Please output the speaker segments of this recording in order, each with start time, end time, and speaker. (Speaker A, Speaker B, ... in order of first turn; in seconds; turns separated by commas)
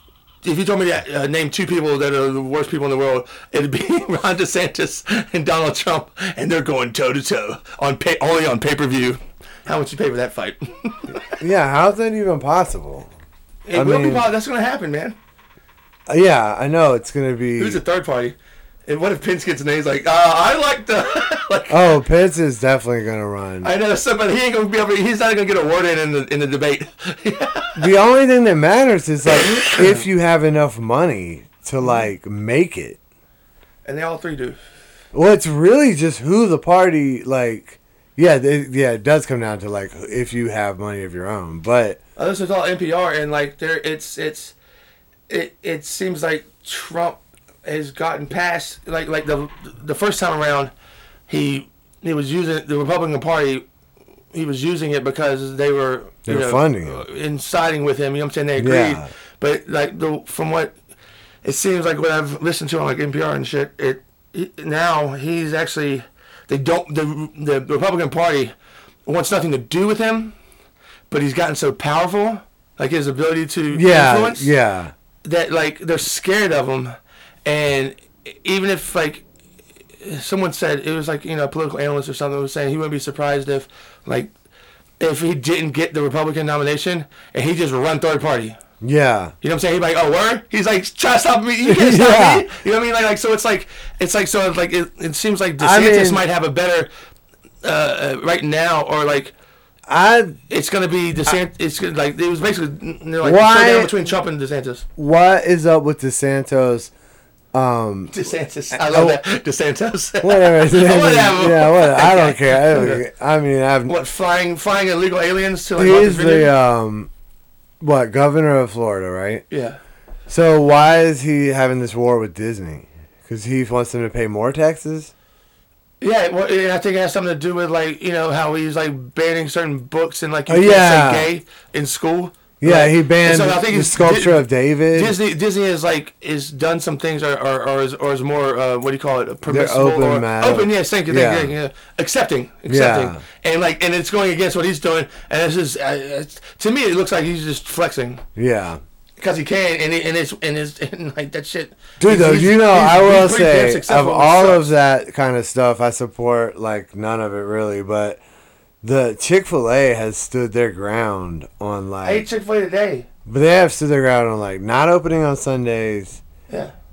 Speaker A: 0.4-11.3, Speaker B: 11.4-13.1, Speaker A: 13.7-15.2, Speaker B: 13.7-14.3, Speaker B: 16.1-17.8, Speaker A: 17.6-18.4, Speaker A: 18.9-21.8, Speaker B: 21.7-23.7, Speaker A: 23.6-27.9, Speaker B: 27.8-33.0, Speaker A: 29.4-30.0, Speaker A: 33.9-34.6, Speaker B: 35.1-42.0, Speaker A: 42.2-44.5, Speaker A: 45.3-50.7, Speaker A: 51.3-53.6, Speaker A: 54.3-60.8, Speaker B: 56.3-57.0, Speaker B: 58.6-59.1, Speaker A: 61.4-68.5, Speaker A: 69.1-70.3, Speaker A: 71.1-74.5, Speaker B: 73.7-74.9, Speaker A: 75.2-79.2, Speaker A: 80.0-84.3, Speaker A: 85.0-88.6, Speaker B: 88.8-89.3, Speaker A: 89.4-96.9, Speaker B: 91.6-92.5, Speaker B: 95.6-96.2, Speaker A: 97.6-99.3, Speaker B: 99.9-100.4, Speaker A: 100.5-104.8, Speaker B: 103.2-104.1, Speaker B: 105.0-106.9, Speaker B: 107.5-108.2, Speaker A: 108.1-113.0, Speaker B: 108.8-109.2, Speaker B: 110.2-114.0, Speaker A: 113.9-116.5, Speaker B: 115.8-117.1, Speaker B: 117.8-119.4, Speaker A: 119.5-119.8, Speaker B: 120.3-125.1, Speaker A: 126.0-148.2, Speaker B: 130.5-131.3, Speaker B: 132.6-135.2, Speaker B: 139.5-141.5, Speaker B: 142.7-143.2, Speaker B: 148.4-148.8, Speaker A: 149.2-154.7, Speaker B: 152.0-158.2, Speaker B: 158.8-162.3, Speaker A: 162.0-163.1, Speaker B: 163.3-166.2